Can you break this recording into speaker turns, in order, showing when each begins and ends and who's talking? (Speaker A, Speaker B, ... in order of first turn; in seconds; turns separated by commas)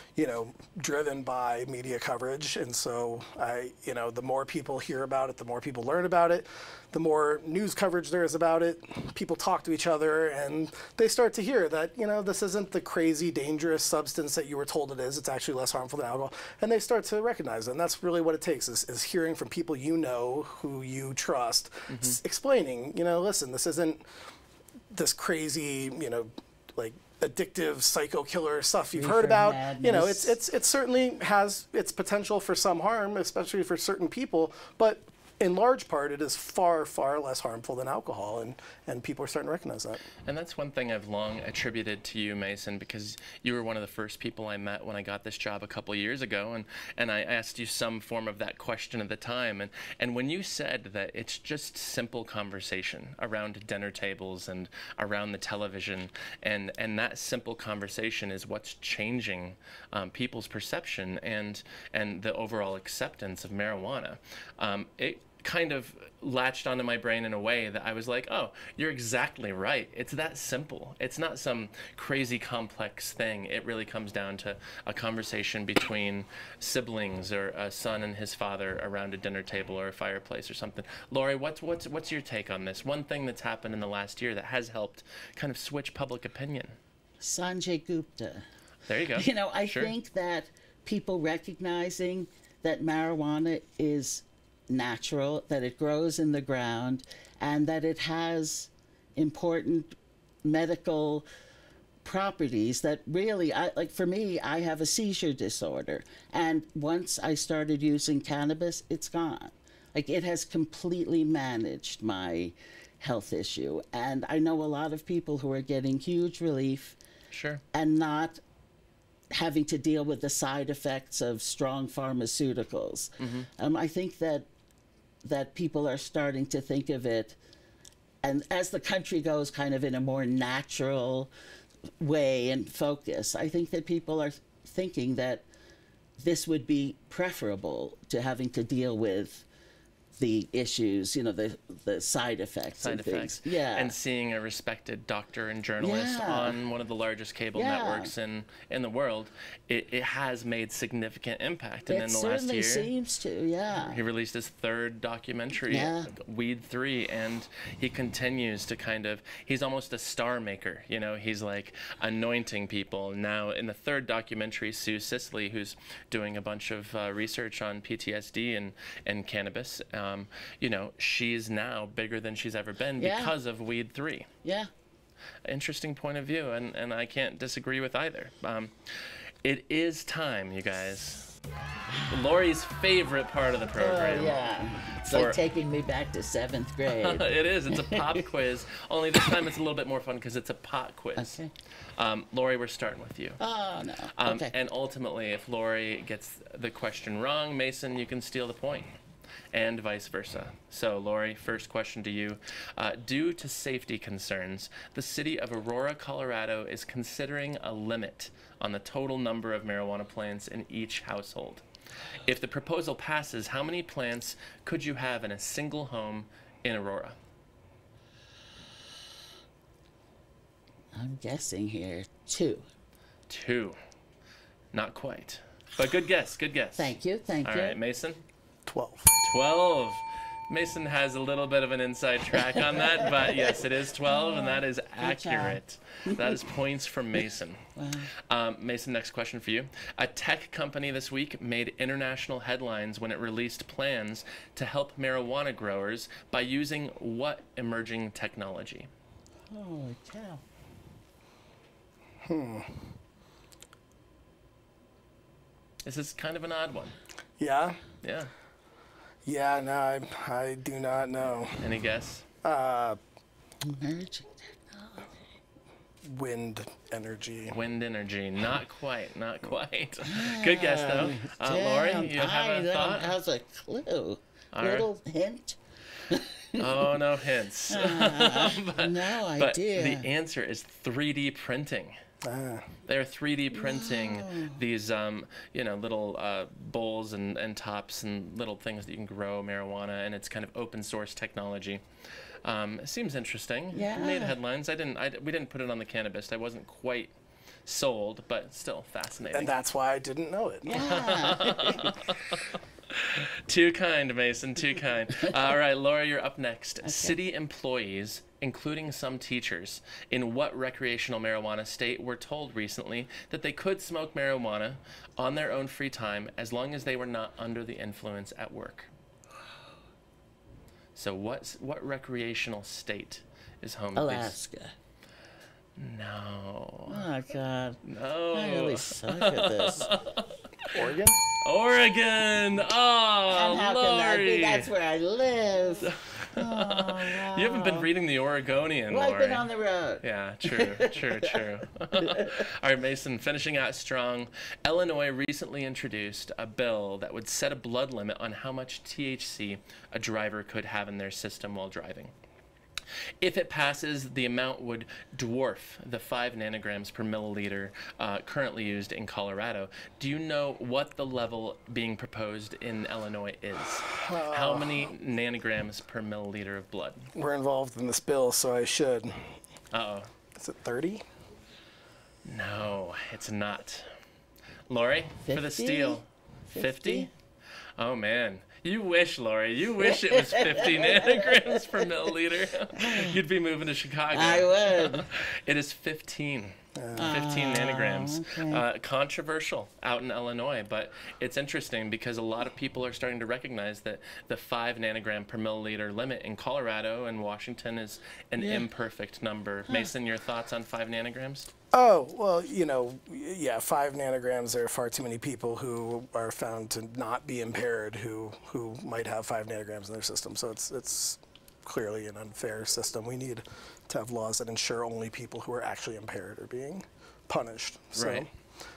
Speaker A: 0.1-24.1, Speaker B: 21.9-22.2, Speaker A: 24.9-40.0, Speaker C: 28.9-30.4, Speaker B: 40.2-86.8, Speaker C: 87.2-88.5, Speaker B: 88.9-89.9, Speaker C: 89.2-101.3, Speaker C: 102.0-117.0, Speaker B: 117.3-117.6, Speaker C: 117.7-118.4, Speaker C: 119.3-124.5, Speaker B: 123.2-123.5, Speaker C: 125.2-127.4, Speaker C: 128.2-131.3, Speaker C: 132.0-135.4, Speaker C: 136.2-139.4, Speaker C: 140.2-143.9, Speaker B: 142.8-152.9, Speaker C: 145.8-146.6, Speaker C: 147.5-148.1, Speaker C: 151.9-154.0, Speaker B: 153.8-174.3, Speaker C: 155.7-156.1, Speaker C: 173.0-173.3, Speaker C: 174.4-174.7, Speaker B: 175.4-181.3, Speaker B: 182.1-184.5, Speaker C: 183.8-188.2, Speaker B: 185.0-185.4, Speaker B: 186.9-191.4, Speaker C: 191.2-191.5, Speaker B: 192.0-193.4, Speaker C: 193.4-194.5, Speaker B: 194.2-198.9, Speaker B: 199.5-211.6, Speaker B: 212.2-217.2, Speaker C: 220.9-222.7, Speaker B: 223.3-223.8, Speaker B: 224.7-228.2, Speaker C: 226.8-227.8, Speaker A: 228.7-229.2, Speaker B: 229.2-237.7, Speaker C: 232.3-236.4, Speaker C: 237.8-238.1, Speaker B: 238.3-248.9, Speaker C: 249.5-250.4, Speaker A: 252.2-252.9, Speaker B: 255.8-256.9, Speaker A: 257.4-257.8, Speaker B: 258.0-258.3, Speaker A: 259.2-261.7, Speaker B: 261.6-262.2, Speaker A: 262.4-263.0, Speaker C: 263.6-265.2, Speaker A: 266.0-267.6, Speaker B: 267.5-273.1, Speaker C: 270.1-276.9, Speaker B: 274.5-274.9, Speaker B: 276.6-282.0, Speaker C: 277.7-280.1, Speaker A: 282.2-282.7, Speaker B: 282.9-291.8, Speaker C: 283.5-284.6, Speaker B: 292.4-297.1, Speaker C: 293.7-294.4, Speaker B: 297.7-299.5, Speaker A: 299.3-300.9, Speaker C: 300.6-302.0, Speaker B: 300.8-318.9, Speaker C: 306.8-307.2, Speaker B: 320.9-324.4, Speaker C: 324.0-324.8, Speaker B: 325.8-327.1, Speaker C: 326.9-327.8, Speaker B: 327.9-330.8, Speaker C: 328.3-329.9, Speaker A: 330.7-331.2, Speaker B: 331.4-334.7, Speaker C: 333.3-337.9, Speaker B: 335.9-339.5, Speaker C: 338.9-341.4, Speaker B: 340.0-352.1, Speaker C: 341.9-342.4, Speaker B: 353.2-367.1, Speaker A: 363.9-364.9, Speaker A: 367.1-369.4, Speaker B: 369.7-370.1, Speaker A: 370.4-371.1, Speaker B: 372.2-373.9, Speaker B: 374.7-377.1, Speaker C: 375.2-376.0, Speaker C: 376.5-377.1, Speaker B: 377.8-401.5, Speaker C: 379.8-382.1, Speaker C: 382.7-383.2, Speaker C: 384.1-385.1, Speaker A: 386.8-387.2, Speaker C: 386.9-388.6, Speaker C: 399.7-399.9, Speaker A: 401.7-418.3, Speaker B: 417.9-418.3